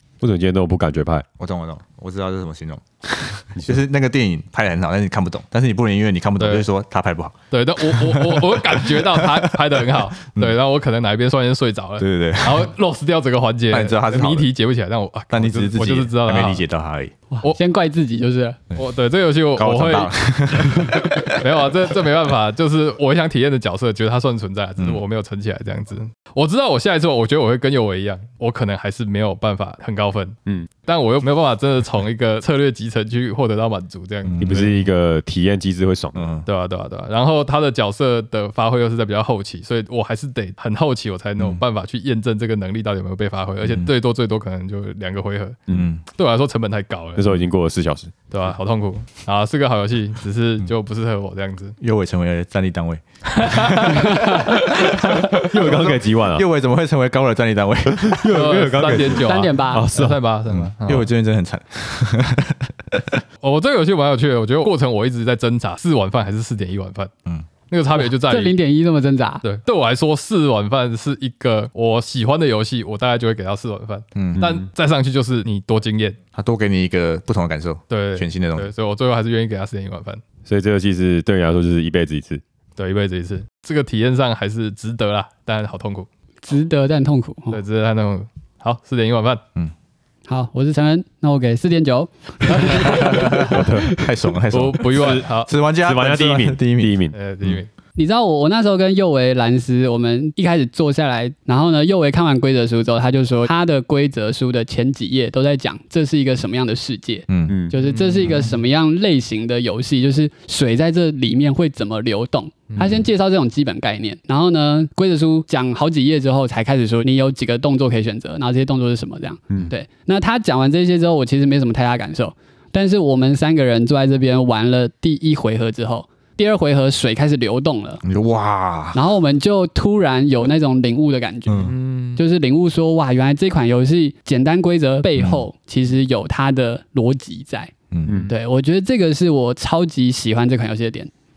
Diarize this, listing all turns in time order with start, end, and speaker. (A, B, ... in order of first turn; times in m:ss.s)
0:00.2-0:01.2 A
0:01.4-0:09.8 B
0:06.4-0:06.6 C
0:07.5-0:16.6 C
0:12.0-0:12.7 B
0:13.7-0:14.5 B
0:15.3-0:17.1 B
0:17.4-0:18.7 D
0:18.7-0:34.7 C
0:19.6-0:21.6 B
0:34.2-0:34.8 B
0:34.4-0:36.3 A
0:36.1-0:36.4 B
0:36.4-0:47.2 C
0:45.7-0:46.0 B
0:47.2-0:48.1 A
0:48.3-0:51.8 C
0:51.8-0:58.3 B
0:53.3-0:55.0 C
0:55.3-0:56.4 A
0:58.0-1:00.2 A
0:58.2-1:01.0 C
0:59.1-0:59.9 D
1:00.5-1:03.2 B
1:03.4-1:07.1 C
1:07.6-1:08.6 C
1:08.0-1:09.4 D
1:09.4-1:16.2 C
1:14.1-1:14.6 B
1:16.3-1:18.7 B
1:17.9-1:20.2 C
1:20.4-1:22.4 A
1:22.8-1:26.1 C
1:26.4-1:27.6 D
1:27.5-1:29.4 C
1:30.3-1:34.1 D
1:32.5-1:33.0 C
1:32.8-1:37.6 B
1:33.5-1:33.9 A
1:34.5-1:35.5 C
1:34.8-1:35.3 A
1:35.8-1:37.2 A
1:37.1-1:37.7 C
1:38.0-2:08.0 D
1:47.3-1:47.6 B
1:47.5-1:47.8 A
1:47.8-1:48.5 C
2:08.0-2:09.0 B
2:08.9-2:17.7 D
2:11.5-2:11.7 B
2:11.6-2:12.2 C
2:15.2-2:15.4 B
2:17.9-2:18.2 B
2:18.0-2:18.3 A
2:18.3-2:21.1 D